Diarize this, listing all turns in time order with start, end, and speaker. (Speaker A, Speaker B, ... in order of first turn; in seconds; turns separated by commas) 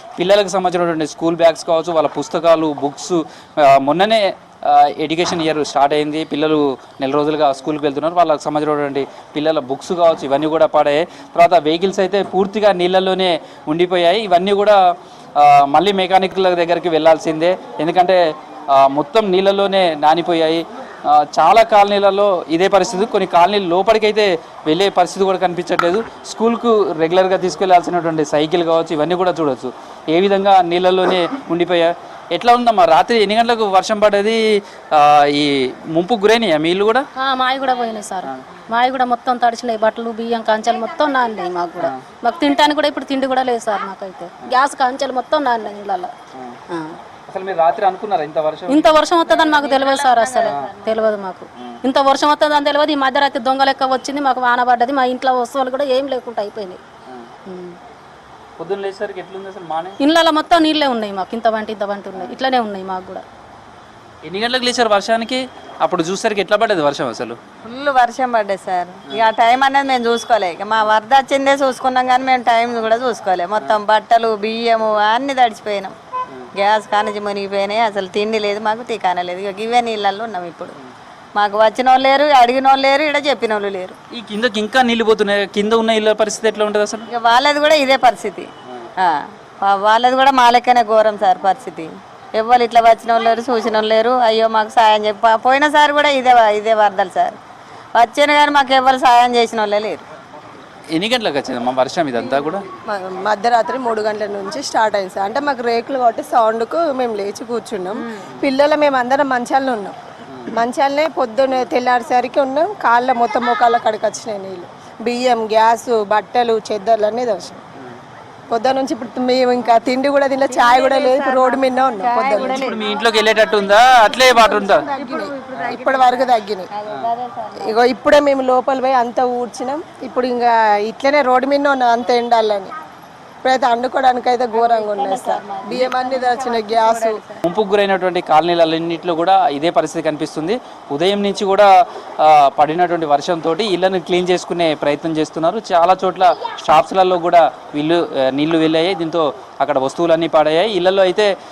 Speaker A: 0.2-14.8, Speaker A: 15.4-18.2, Speaker A: 18.7-34.4, Speaker A: 34.9-37.1, Speaker B: 37.2-46.1, Speaker A: 47.3-49.0, Speaker B: 48.7-56.8, Speaker C: 49.3-50.5, Speaker A: 50.4-50.9, Speaker B: 57.5-57.8, Speaker A: 58.6-60.0, Speaker B: 60.0-63.2, Speaker A: 64.2-67.4, Speaker C: 67.6-75.9, Speaker C: 76.6-80.8, Speaker C: 81.4-84.0, Speaker A: 84.1-87.1, Speaker C: 87.1-88.5, Speaker C: 89.0-97.4, Speaker C: 97.9-100.0, Speaker A: 100.9-102.6, Speaker D: 102.2-110.0, Speaker C: 107.9-108.3, Speaker D: 110.5-117.6, Speaker D: 118.5-122.6, Speaker C: 120.5-122.9, Speaker A: 122.3-124.9, Speaker D: 124.0-126.7, Speaker C: 125.0-127.8, Speaker A: 125.6-125.8, Speaker D: 127.6-132.7, Speaker D: 133.4-137.2, Speaker C: 134.6-137.3, Speaker A: 137.4-141.7, Speaker A: 142.2-151.3